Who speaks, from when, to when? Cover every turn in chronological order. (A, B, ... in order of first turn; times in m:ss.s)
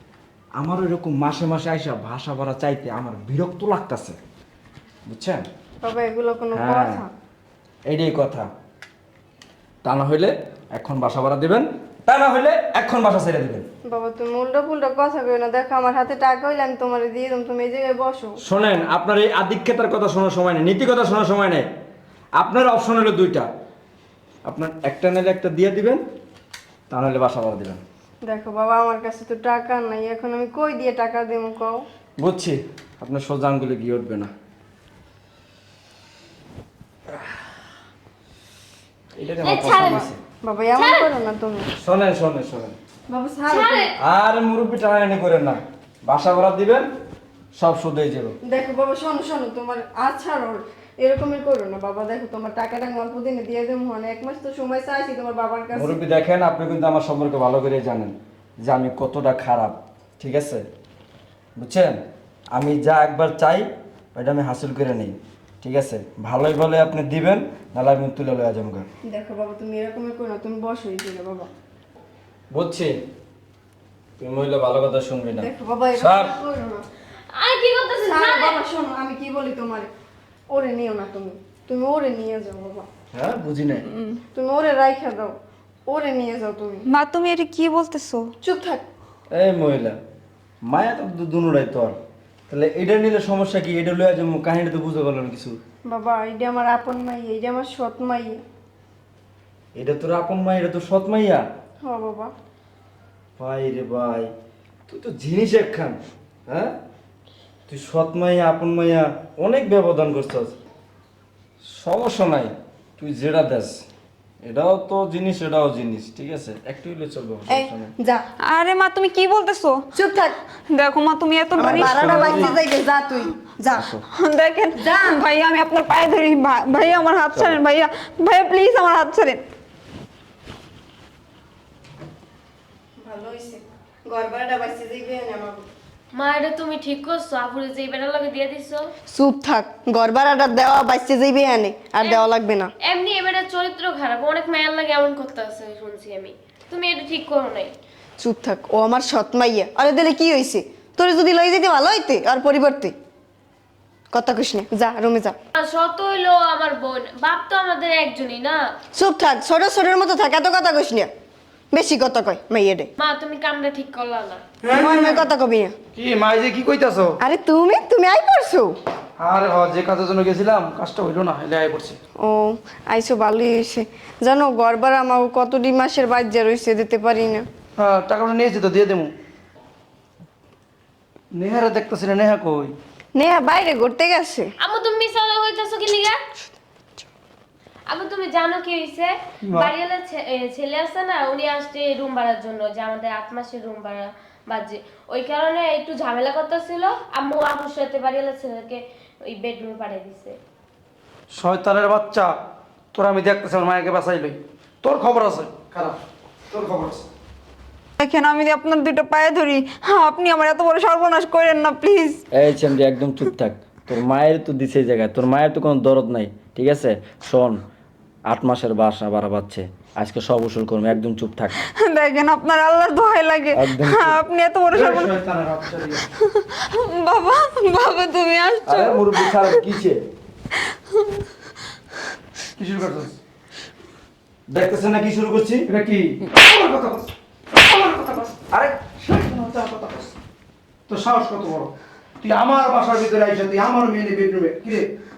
0:00.6-0:04.2 A
0:05.1-0:05.5 A
0:05.8-0:07.1 B
0:06.5-0:07.0 A
0:07.9-0:08.5 A
0:09.8-0:13.6 A
0:13.9-0:18.4 B
0:18.4-0:21.7 A
0:22.4-0:23.5 A
0:24.4-0:26.0 A
0:26.9-0:27.8 A
0:28.2-0:31.8 B
0:32.2-0:34.3 A
0:39.2-0:40.2 A
0:39.4-0:40.1 C
0:40.4-0:41.7 B
0:40.8-0:41.0 C
0:41.8-0:42.8 A
0:43.1-0:43.9 B
0:43.5-0:43.9 C
0:44.0-0:46.9 A
0:47.5-0:48.4 A
0:48.4-0:56.0 B
0:55.7-1:00.6 A
1:01.6-1:02.0 A
1:02.5-1:08.9 A
1:09.1-1:11.5 B
1:12.5-1:13.0 A
1:14.2-1:16.3 A
1:15.3-1:16.8 B
1:17.3-1:18.6 C
1:18.0-1:19.9 B
1:20.5-1:22.9 B
1:23.1-1:23.8 A
1:23.8-1:24.2 D
1:24.3-1:25.3 B
1:25.9-1:26.8 B
1:26.9-1:28.3 D
1:28.4-1:28.8 B
1:29.3-1:30.0 A
1:30.6-1:32.0 A
1:32.5-1:35.6 A
1:35.9-1:38.4 B
1:39.7-1:41.4 A
1:41.8-1:42.3 B
1:43.4-1:44.3 A
1:44.9-1:46.8 A
1:47.7-1:50.6 A
1:51.6-1:53.8 A
1:54.4-1:57.9 A
1:57.5-1:58.2 B
1:58.5-1:59.8 D
1:59.9-2:00.4 B
2:00.7-2:02.2 D
2:01.6-2:04.0 B
2:01.6-2:02.6 A
2:04.1-2:09.4 D
2:04.8-2:05.2 B
2:13.0-2:15.7 B
2:16.1-2:18.8 C
2:19.1-2:22.7 B
2:22.8-2:27.7 C
2:28.2-2:32.9 B
2:34.1-2:35.3 B
2:35.6-2:38.6 C
2:38.9-2:41.1 B
2:41.7-2:42.9 B
2:43.0-2:44.4 C
2:44.6-2:45.3 E
2:44.7-2:45.8 B
2:45.9-2:47.2 E
2:47.2-2:48.8 B
2:49.2-2:52.0 E
2:52.2-2:57.5 B
2:57.8-2:59.1 E
3:01.3-3:02.8 E
3:03.2-3:04.5 B
3:04.6-3:06.2 C
3:07.9-3:20.3 C
3:21.3-3:22.3 E
3:22.9-3:26.0 E
3:26.5-3:27.1 E
3:28.0-3:32.2 D
3:32.3-3:37.6 A
3:38.3-3:41.5 A
3:41.5-3:45.1 D
3:43.5-3:44.2 A
3:44.7-3:46.0 E
3:45.9-3:49.6 D
3:48.7-3:50.0 A
3:52.6-3:53.2 E
3:54.5-3:55.6 A
3:55.7-3:58.4 E
3:58.5-3:58.8 A
3:59.0-4:00.1 E
4:00.9-4:04.9 E